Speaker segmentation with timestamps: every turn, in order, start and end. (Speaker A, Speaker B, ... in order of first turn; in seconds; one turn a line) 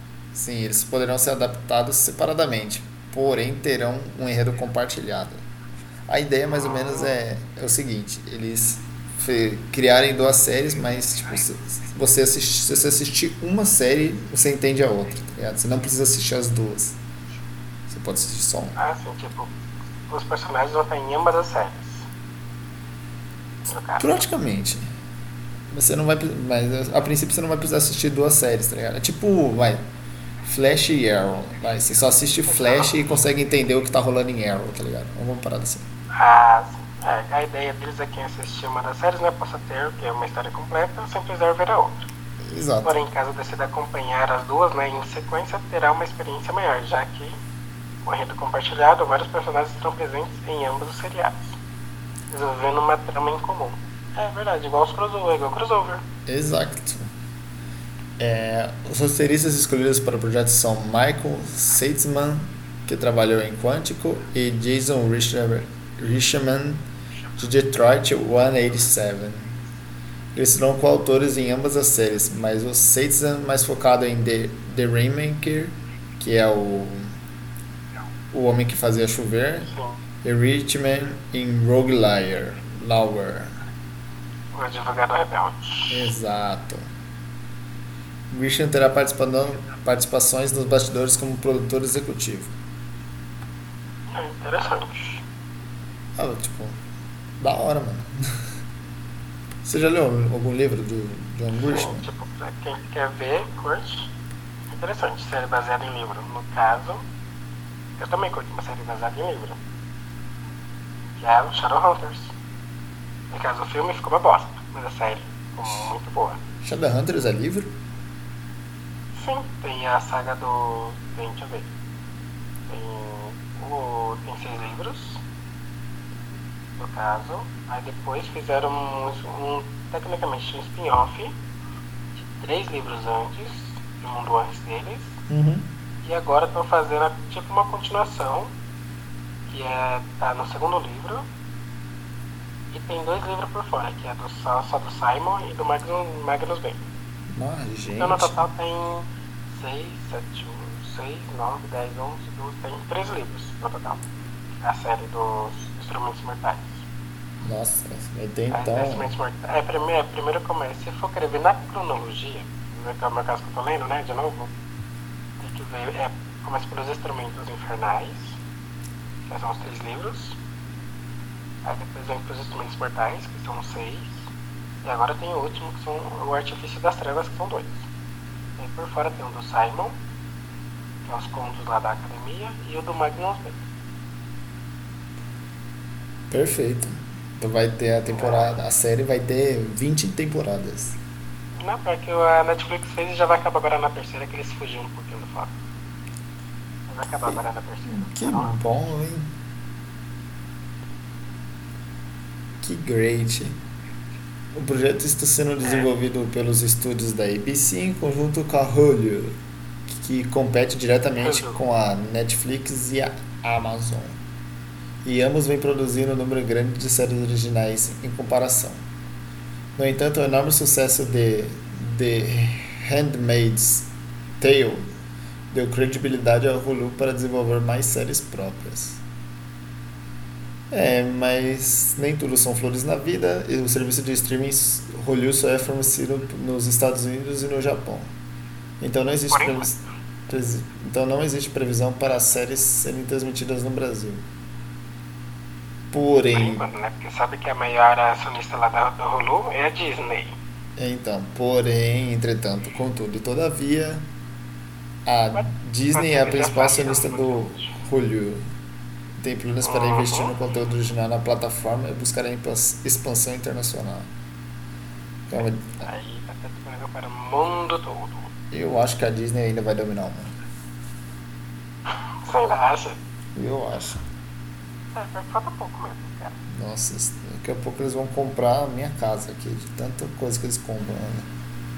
Speaker A: 0.3-5.4
Speaker A: 6.1-17.0
Speaker B: 6.5-7.1
Speaker A: 17.9-18.8
Speaker B: 18.8-19.5
Speaker B: 20.1-22.1
Speaker B: 23.7-24.1
Speaker A: 24.0-24.9
Speaker A: 25.7-29.8
Speaker A: 30.4-35.9
Speaker B: 32.5-32.9
Speaker B: 36.1-42.1
Speaker A: 42.4-43.0
Speaker B: 42.8-47.4
Speaker B: 48.0-51.6
Speaker B: 52.3-56.0
Speaker A: 56.3-57.1
Speaker A: 58.2-66.9
Speaker A: 67.4-69.6
Speaker A: 70.3-77.2
Speaker A: 78.3-83.6
Speaker B: 79.7-80.0
Speaker B: 84.5-86.1
Speaker A: 85.9-86.9
Speaker A: 88.3-92.5
Speaker B: 94.1-95.2
Speaker A: 96.2-96.8
Speaker A: 97.4-98.3
Speaker A: 99.6-102.1
Speaker B: 101.6-104.1
Speaker B: 104.7-107.0
Speaker B: 108.0-109.6
Speaker B: 111.2-112.3
Speaker B: 113.3-116.4
Speaker A: 116.6-117.7
Speaker B: 119.2-121.7
Speaker B: 122.7-125.2
Speaker B: 126.8-131.4
Speaker B: 132.2-135.2
Speaker A: 135.3-135.7
Speaker B: 136.0-138.5
Speaker B: 139.5-141.2
Speaker B: 142.7-146.8
Speaker A: 147.3-148.4
Speaker B: 148.0-154.0
Speaker B: 154.6-156.8
Speaker A: 157.4-159.1
Speaker B: 158.5-164.5
Speaker B: 165.4-168.4
Speaker B: 169.3-170.4
Speaker B: 171.7-174.3
Speaker B: 174.8-177.9
Speaker B: 178.6-180.0
Speaker B: 181.1-183.6
Speaker A: 186.3-191.0
Speaker B: 188.1-188.5
Speaker B: 191.6-195.5
Speaker B: 196.9-198.6
Speaker A: 197.3-199.3
Speaker A: 202.6-203.6
Speaker A: 204.5-209.4
Speaker A: 209.9-214.2
Speaker B: 211.2-211.6
Speaker A: 215.0-218.8
Speaker A: 219.8-224.8
Speaker A: 225.5-229.0
Speaker A: 230.7-238.1
Speaker A: 238.8-244.3
Speaker B: 239.3-239.8
Speaker A: 245.9-246.7
Speaker B: 246.3-250.3
Speaker A: 250.8-254.1
Speaker A: 255.1-258.4
Speaker B: 255.3-257.8
Speaker A: 259.2-264.1
Speaker B: 259.6-260.4
Speaker A: 265.3-265.9
Speaker B: 265.8-268.3
Speaker A: 268.5-270.4
Speaker B: 272.2-273.0
Speaker A: 273.4-274.0
Speaker B: 274.9-276.4
Speaker A: 276.5-281.3